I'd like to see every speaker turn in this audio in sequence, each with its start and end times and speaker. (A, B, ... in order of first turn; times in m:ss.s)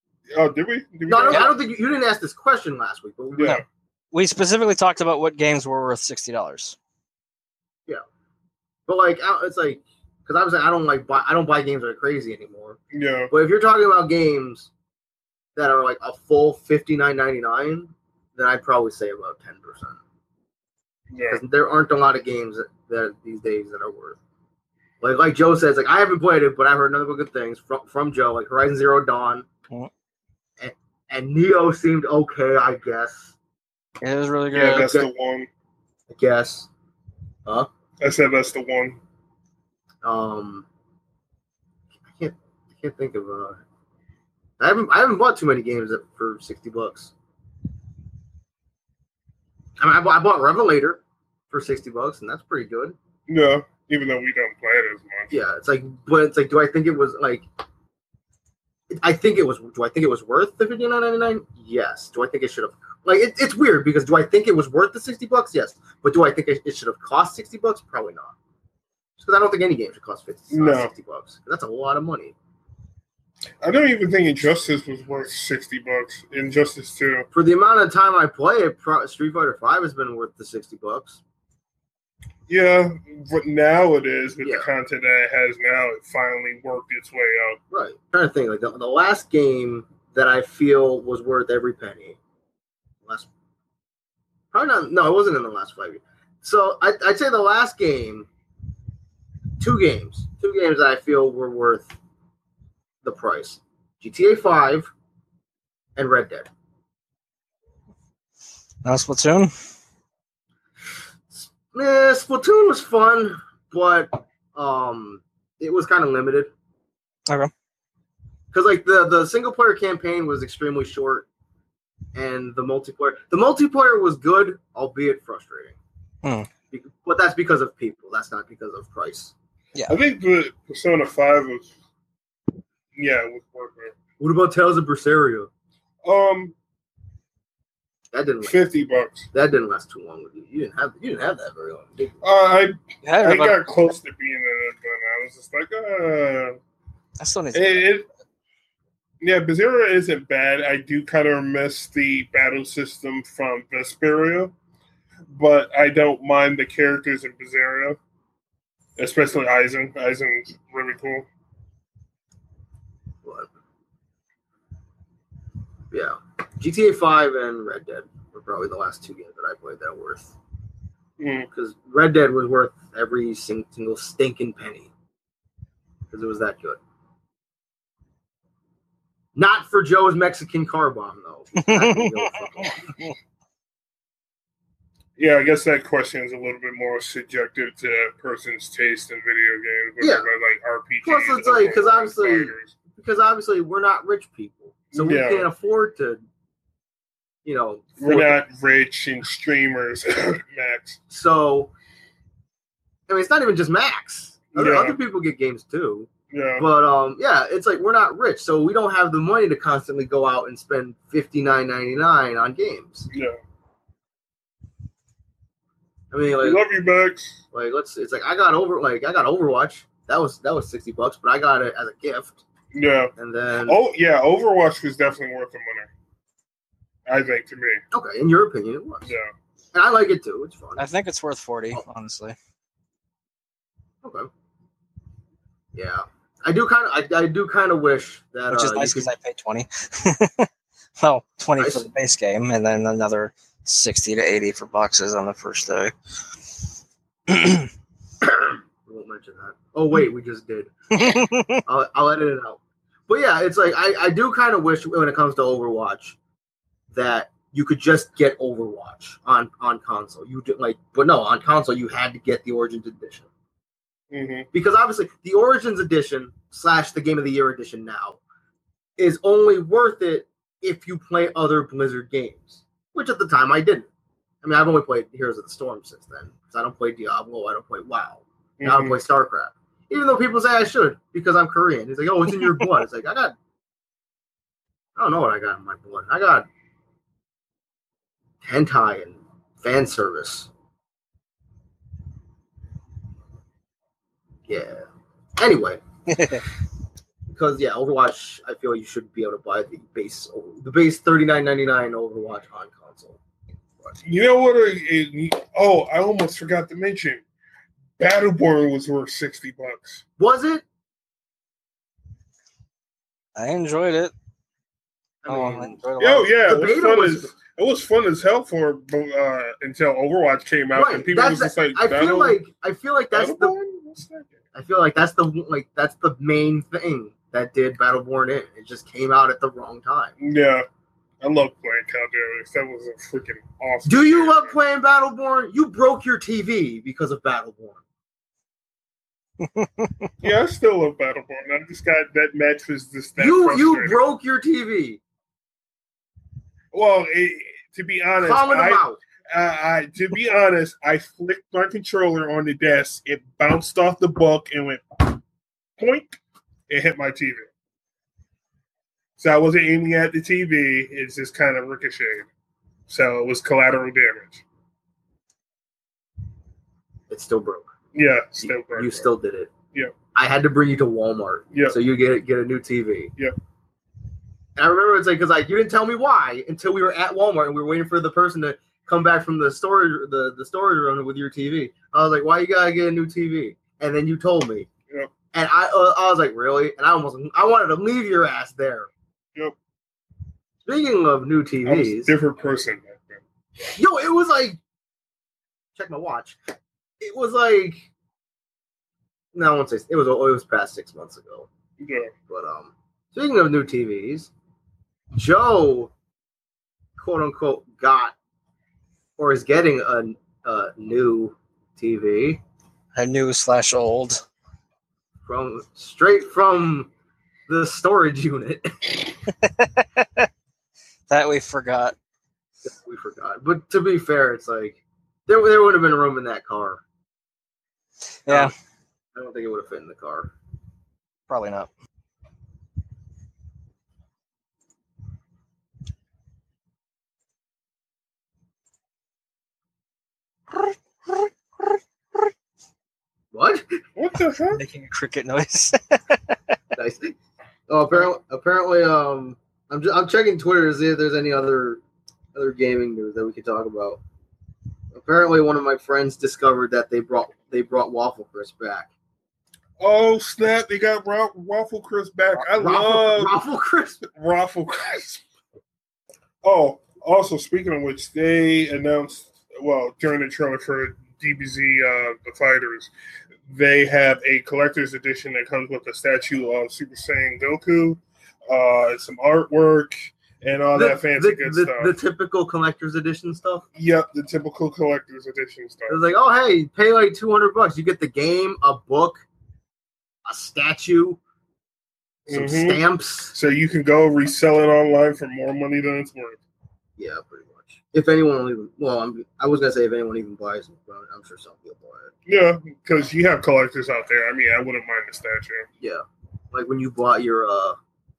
0:00.3-0:01.6 A
0:01.1-0:03.6 B
0:03.3-0:03.6 A
0:03.4-0:06.8 C
0:08.9-0:12.8 B
0:12.9-0:13.3 A
0:13.3-0:14.7 B
0:15.6-0:20.0 B
0:21.1-0:21.4 A
0:21.3-0:24.2 B
0:25.0-0:29.5 B
0:30.6-0:33.3 B
0:34.0-0:34.9 C
0:34.5-0:35.5 A
0:34.6-0:35.1 B
0:36.1-0:36.7 B
0:38.0-0:39.0 A
0:40.0-0:40.7 B
0:42.1-0:43.6 B
0:44.6-0:47.1 B
0:49.8-0:53.0 B
0:53.3-0:55.3 A
0:55.3-0:57.4 B
0:58.9-1:08.4 B
1:09.2-1:12.4 B
1:10.5-1:10.9 A
1:13.6-1:17.3 A
1:17.3-1:21.2 B
1:22.5-1:27.6 A
1:24.4-1:24.7 B
1:27.7-1:32.2 B
1:33.0-1:33.3 B
1:34.5-1:38.3 B
1:39.6-1:41.9 B
1:43.0-1:44.9 B
1:46.0-1:46.5 B
1:48.8-1:49.5 C
1:51.3-1:56.5 B
1:58.5-2:01.3 B
2:02.2-2:05.8 B
2:06.7-2:09.3 B
2:09.9-2:11.7 A
2:13.0-2:14.0 A
2:14.2-2:15.5 B
2:16.0-2:16.6 A
2:18.1-2:18.6 B
2:18.4-2:19.3 A
2:19.3-2:22.2 B
2:22.2-2:26.6 A
2:23.0-2:23.6 C
2:27.2-2:27.8 C
2:27.5-2:28.1 A
2:29.2-2:34.5 A
2:35.3-2:38.0 A
2:39.0-2:41.3 A
2:45.9-2:50.3 B
2:51.2-2:51.5 A
2:51.5-2:54.9 B
2:56.1-2:56.8 B
2:59.4-3:02.9 B
3:01.6-3:03.1 C
3:05.2-3:12.7 A
3:10.0-3:10.3 B
3:11.0-3:16.2 B
3:14.9-3:15.5 A
3:17.4-3:18.4 B
3:18.0-3:21.0 A
3:21.1-3:21.7 B
3:23.1-3:33.1 B
3:24.5-3:25.0 A
3:26.3-3:26.7 A
3:33.1-3:33.4 A
3:36.1-3:36.6 B
3:36.4-3:37.4 A
3:37.5-3:42.4 B
3:42.7-3:43.1 A
3:43.2-3:43.8 B
3:43.7-3:45.9 A
3:47.1-3:47.8 A
3:47.9-3:49.1 B
3:49.0-3:49.3 A
3:49.7-3:50.8 B
3:50.8-3:52.4 C
3:54.0-3:54.3 B
3:55.8-3:59.1 B
3:58.5-4:00.5 C
4:01.0-4:05.9 C
4:01.6-4:01.9 B
4:07.3-4:07.7 C
4:08.2-4:16.2 B
4:11.0-4:11.6 C
4:16.9-4:23.3 B
4:24.1-4:24.5 A
4:24.5-4:28.2 B
4:29.0-4:33.9 B
4:34.4-4:43.4 B
4:38.6-4:39.0 A
4:45.0-4:46.5 B
4:48.4-4:50.5 B
4:54.5-4:54.9 B
4:55.4-4:55.8 B
4:56.2-4:56.4 C
4:57.3-5:03.2 B
5:04.0-5:07.2 A
5:08.0-5:10.0 A
5:10.2-5:10.6 B
5:13.4-5:14.1 C
5:15.2-5:15.8 B
5:15.3-5:16.3 C
5:16.0-5:22.4 A
5:16.4-5:17.3 B
5:20.8-5:23.5 B
5:23.1-5:24.4 A
5:24.5-5:30.1 B
5:30.2-5:30.6 A
5:31.2-5:34.6 A
5:33.9-5:37.8 B
5:39.4-5:40.1 C
5:40.2-5:44.0 A
5:43.2-5:45.0 B
5:46.7-5:55.2 A
5:48.2-5:49.0 B
5:55.8-5:57.5 A
5:59.2-6:02.3 A
6:02.9-6:04.4 A
6:07.1-6:07.7 B
6:07.9-6:09.1 A
6:08.4-6:09.5 B
6:10.1-6:13.1 B
6:11.5-6:11.8 A
6:14.6-6:24.7 B
6:25.3-6:28.9 B
6:30.6-6:32.1 B
6:31.6-6:33.2 A
6:33.8-6:34.6 B
6:35.8-6:36.4 B
6:37.0-6:37.8 B
6:39.3-6:41.5 B
6:41.8-6:42.1 A
6:42.3-6:44.3 B
6:45.1-6:45.9 B
6:47.0-6:48.2 B
6:49.2-6:52.4 B
6:53.0-6:54.2 C
6:55.3-6:56.9 B
6:57.5-6:59.1 B
6:59.4-7:00.3 C
7:01.1-7:02.0 C
7:02.6-7:06.8 B
7:08.3-7:08.5 C
7:08.3-7:08.5 B
7:09.2-7:10.3 B
7:11.3-7:11.7 C
7:23.3-7:23.8 B
7:24.0-7:24.6 A
7:24.6-7:26.4 C
7:26.7-7:27.2 B
7:27.7-7:31.8 B
7:32.4-7:34.0 B
7:34.9-7:38.9 B
7:39.8-7:43.4 A
7:42.4-7:44.0 B
7:44.0-7:45.2 A
7:46.4-7:52.9 A
7:53.5-8:01.9 A
8:00.8-8:03.7 B
8:03.8-8:06.0 A
8:05.9-8:09.2 B
8:10.3-8:11.2 B
8:12.3-8:16.4 A
8:12.3-8:13.3 B
8:17.0-8:22.1 B
8:22.3-8:25.7 A
8:25.8-8:27.8 B